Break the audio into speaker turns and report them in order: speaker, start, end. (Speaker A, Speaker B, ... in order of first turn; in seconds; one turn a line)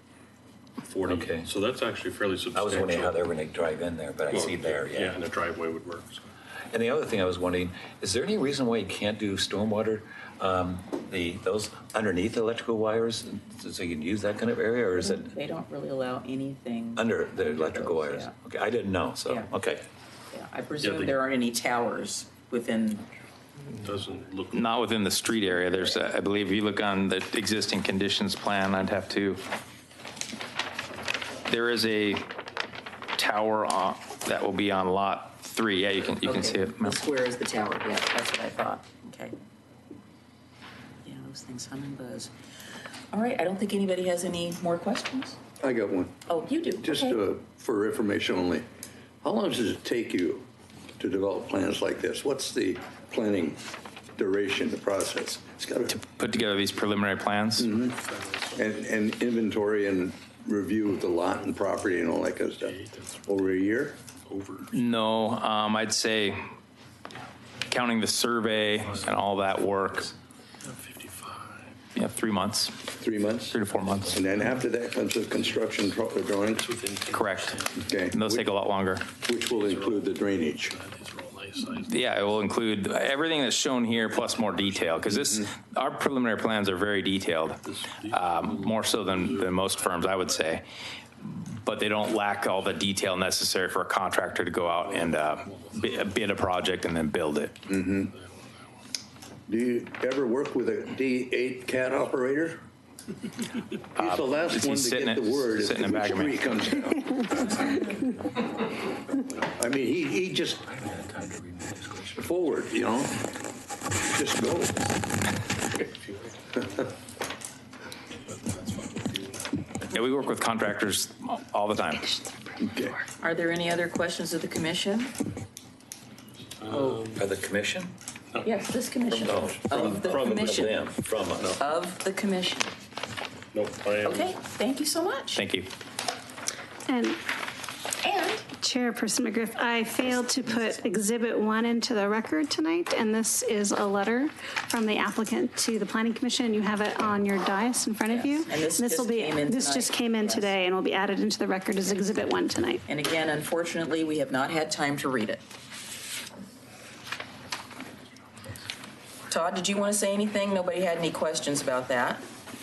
Speaker A: 0.8-3.3
Speaker B: 1.0-1.5
Speaker B: 2.5-5.2
Speaker A: 4.3-6.2
Speaker B: 6.7-15.3
Speaker C: 14.9-18.3
Speaker B: 17.0-19.9
Speaker C: 20.3-23.1
Speaker A: 20.8-21.1
Speaker A: 23.8-24.7
Speaker D: 24.5-29.4
Speaker D: 31.4-32.3
Speaker D: 33.2-37.0
Speaker C: 36.2-39.3
Speaker C: 41.0-42.3
Speaker C: 43.1-45.4
Speaker E: 45.6-46.1
Speaker C: 46.3-47.2
Speaker E: 46.8-48.6
Speaker E: 49.2-50.4
Speaker E: 51.0-53.6
Speaker E: 54.1-56.0
Speaker D: 55.9-57.7
Speaker E: 57.6-58.0
Speaker A: 57.8-58.7
Speaker E: 58.5-64.0
Speaker A: 62.5-64.7
Speaker D: 64.7-66.4
Speaker D: 67.7-70.1
Speaker A: 68.8-69.4
Speaker A: 70.6-71.8
Speaker D: 72.0-72.7
Speaker E: 73.0-73.6
Speaker D: 73.5-74.2
Speaker A: 74.0-74.6
Speaker E: 74.1-76.7
Speaker A: 75.2-75.9
Speaker A: 76.5-77.9
Speaker D: 77.1-79.1
Speaker E: 77.8-78.5
Speaker E: 79.2-80.7
Speaker A: 79.4-82.2
Speaker D: 81.8-90.6
Speaker A: 83.9-85.2
Speaker A: 87.6-90.5
Speaker D: 91.2-97.5
Speaker A: 94.7-96.2
Speaker E: 97.7-98.1
Speaker A: 97.9-98.7
Speaker E: 99.5-102.6
Speaker E: 104.0-107.7
Speaker D: 104.0-106.4
Speaker B: 107.6-108.0
Speaker E: 109.5-110.6
Speaker B: 110.5-112.7
Speaker E: 112.2-113.2
Speaker E: 114.1-114.8
Speaker A: 115.7-116.9
Speaker A: 118.2-119.7
Speaker D: 119.9-122.2
Speaker E: 122.6-123.0
Speaker C: 123.2-125.1
Speaker A: 126.6-127.2
Speaker C: 126.7-127.0
Speaker B: 127.2-127.9
Speaker A: 128.3-128.6
Speaker C: 128.4-132.7
Speaker B: 129.1-131.6
Speaker A: 129.3-131.6
Speaker A: 133.5-134.3
Speaker C: 134.0-135.4
Speaker D: 135.3-135.7
Speaker F: 136.9-137.2
Speaker C: 138.0-138.5
Speaker F: 138.5-152.8
Speaker C: 148.1-150.6
Speaker C: 152.9-155.4
Speaker C: 159.3-162.2